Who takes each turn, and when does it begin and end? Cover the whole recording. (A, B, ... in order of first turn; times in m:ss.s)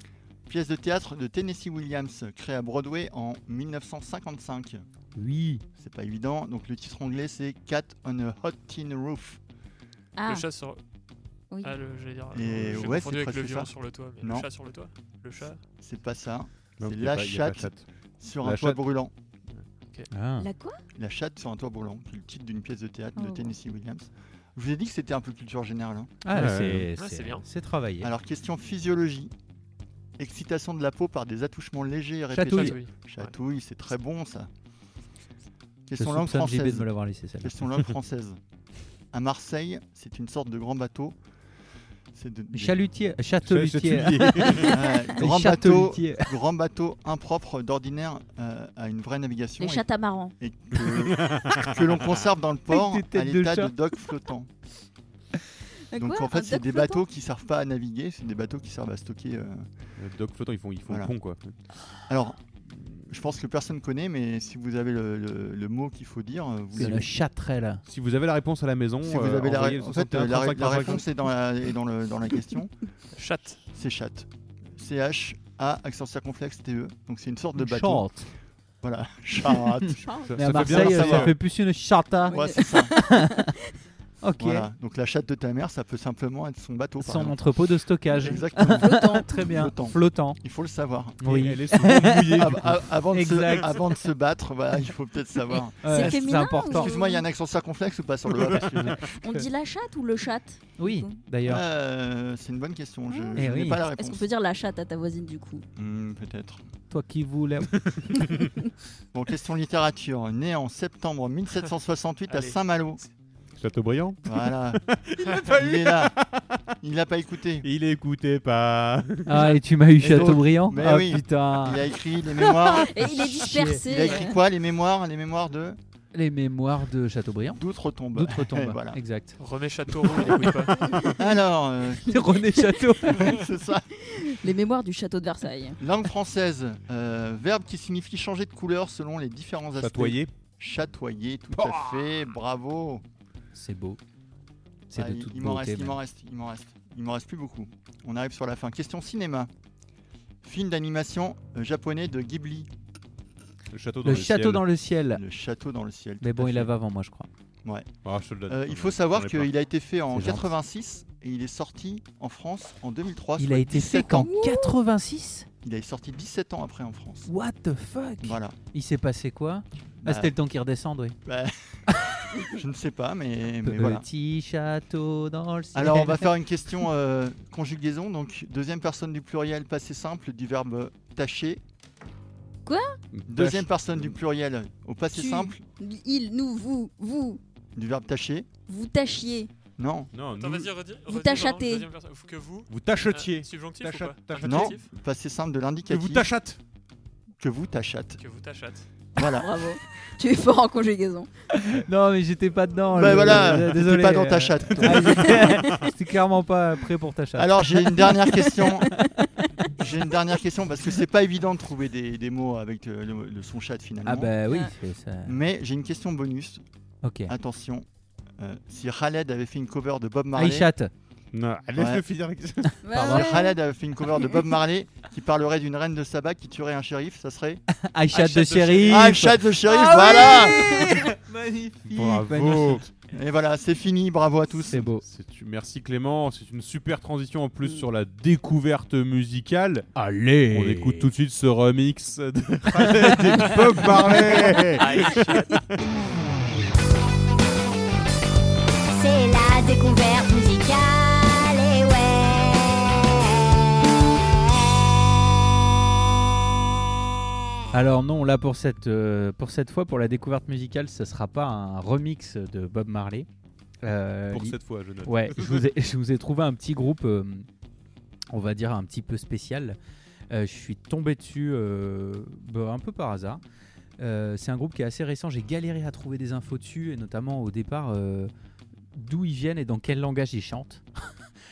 0:00.5-0:04.8 A
0:05.2-0:05.6 B
0:05.8-0:09.4 A
0:10.2-0:10.4 C
0:10.3-0:10.8 D
0:11.6-0:15.6 D
0:12.3-0:14.5 A
0:12.5-0:13.0 E
0:15.4-0:19.1 A
0:16.8-0:17.9 E
0:18.4-0:18.8 E
0:20.1-0:20.5 B
0:20.4-0:20.8 C
0:21.0-0:26.2 A
0:23.2-0:23.6 C
0:26.2-0:28.1 B
0:26.3-0:26.9 E
0:27.0-0:27.4 D
0:28.0-0:29.3 A
0:30.2-0:34.5 A
0:32.3-0:32.8 B
0:32.5-0:33.3 D
0:35.9-0:36.9 A
0:36.0-0:37.7 B
0:37.4-0:38.4 A
0:39.1-0:41.2 A
0:42.1-0:42.8 A
0:42.5-0:46.3 B
0:43.5-0:44.8 E
0:44.5-0:49.9 A
0:49.6-0:50.3 C
0:50.4-0:54.5 A
0:50.8-0:52.1 E
0:52.7-0:53.7 B
0:55.9-0:57.0 C
0:56.0-0:59.7 A
1:00.0-1:01.5 E
1:00.9-1:01.1 A
1:02.1-1:07.1 A
1:06.7-1:07.8 B
1:07.9-1:11.1 E
1:09.0-1:12.7 A
1:13.2-1:13.6 D
1:13.7-1:18.1 A
1:17.6-1:18.3 B
1:18.8-1:21.4 A
1:20.0-1:20.4 C
1:20.2-1:21.4 E
1:20.4-1:23.5 B
1:22.3-1:22.9 A
1:22.3-1:23.4 C
1:24.2-1:24.7 B
1:24.4-1:27.4 A
1:27.0-1:30.4 B
1:28.1-1:31.4 A
1:28.6-1:29.3 C
1:31.2-1:32.5 B
1:31.3-1:32.8 E
1:32.4-1:39.1 A
1:33.1-1:33.8 B
1:35.5-1:37.2 C
1:35.8-1:36.9 B
1:38.4-1:38.9 E
1:39.1-1:41.2 C
1:40.8-1:41.6 B
1:41.4-1:44.3 A
1:43.1-1:45.7 C
1:43.4-1:43.8 B
1:45.8-1:46.6 A
1:46.9-1:47.8 B
1:47.9-1:48.5 E
1:49.1-1:53.0 A
1:52.3-1:52.6 D
1:53.6-1:56.6 E
1:54.3-1:54.8 A
1:55.4-1:56.2 A
1:56.8-1:57.7 A
1:57.6-1:59.5 E
1:59.3-2:04.1 B
2:00.0-2:05.8 A
2:02.7-2:04.4 C
2:06.1-2:07.6 B
2:07.6-2:09.0 A
2:08.1-2:09.4 B
2:09.4-2:10.8 D
2:10.0-2:11.1 B
2:10.8-2:11.3 C
2:11.0-2:12.3 A
2:12.1-2:13.4 B
2:12.2-2:13.3 C
2:13.1-2:14.3 A
2:14.1-2:15.8 C
2:15.8-2:23.0 A
2:19.8-2:20.3 E
2:21.6-2:22.2 E
2:23.5-2:24.0 B
2:24.9-2:26.0 B
2:24.9-2:29.5 A
2:30.4-2:32.7 A
2:33.7-2:34.7 E
2:34.0-2:35.2 B
2:35.1-2:36.7 A
2:36.2-2:37.3 B
2:37.6-2:37.9 A
2:38.0-2:39.5 E
2:38.5-2:44.3 A
2:40.1-2:40.5 B
2:43.4-2:45.5 B
2:44.2-2:44.7 C
2:45.6-2:47.3 A
2:47.3-2:51.2 B
2:48.2-2:48.6 A
2:50.0-2:50.3 A
2:51.3-2:51.8 A
2:52.5-2:54.0 A
2:53.6-2:56.4 B
2:55.7-3:01.6 A
3:02.7-3:03.0 C
3:03.1-3:04.2 E
3:03.3-3:05.6 A
3:05.1-3:07.4 C
3:07.8-3:08.5 A
3:08.7-3:09.5 C
3:09.8-3:10.1 A
3:10.1-3:10.7 E
3:10.3-3:14.9 D
3:11.1-3:11.9 C
3:12.7-3:14.8 E
3:14.4-3:16.3 A
3:15.9-3:16.6 E
3:17.4-3:18.2 A
3:18.2-3:18.9 D
3:19.2-3:19.7 A
3:19.2-3:21.3 C
3:21.7-3:28.3 B
3:22.9-3:25.6 A
3:27.4-3:29.0 A
3:28.2-3:28.7 C
3:29.7-3:34.3 A
3:34.0-3:35.4 B
3:35.3-3:36.6 A
3:37.0-3:37.3 B
3:37.3-3:37.9 A
3:38.4-3:40.7 A
3:40.3-3:40.9 B
3:41.3-3:42.8 E
3:41.8-3:42.0 A
3:42.8-3:43.6 C
3:42.9-3:47.6 A
3:42.9-3:43.4 B
3:47.7-3:52.8 B
3:48.1-3:49.2 D
3:48.8-3:50.7 A
3:49.7-3:51.1 C
3:51.9-3:52.9 E
3:53.1-3:54.9 A
3:54.7-3:55.0 B
3:55.0-3:59.9 E
4:00.0-4:01.1 B
4:00.5-4:05.6 E
4:02.7-4:03.6 B
4:04.5-4:05.5 D
4:08.9-4:13.1 F
4:17.7-4:23.3 B
4:23.8-4:27.5 B
4:24.3-4:25.7 E
4:28.3-4:29.8 B
4:30.3-4:33.4 B
4:34.0-4:38.3 B
4:38.9-4:40.8 B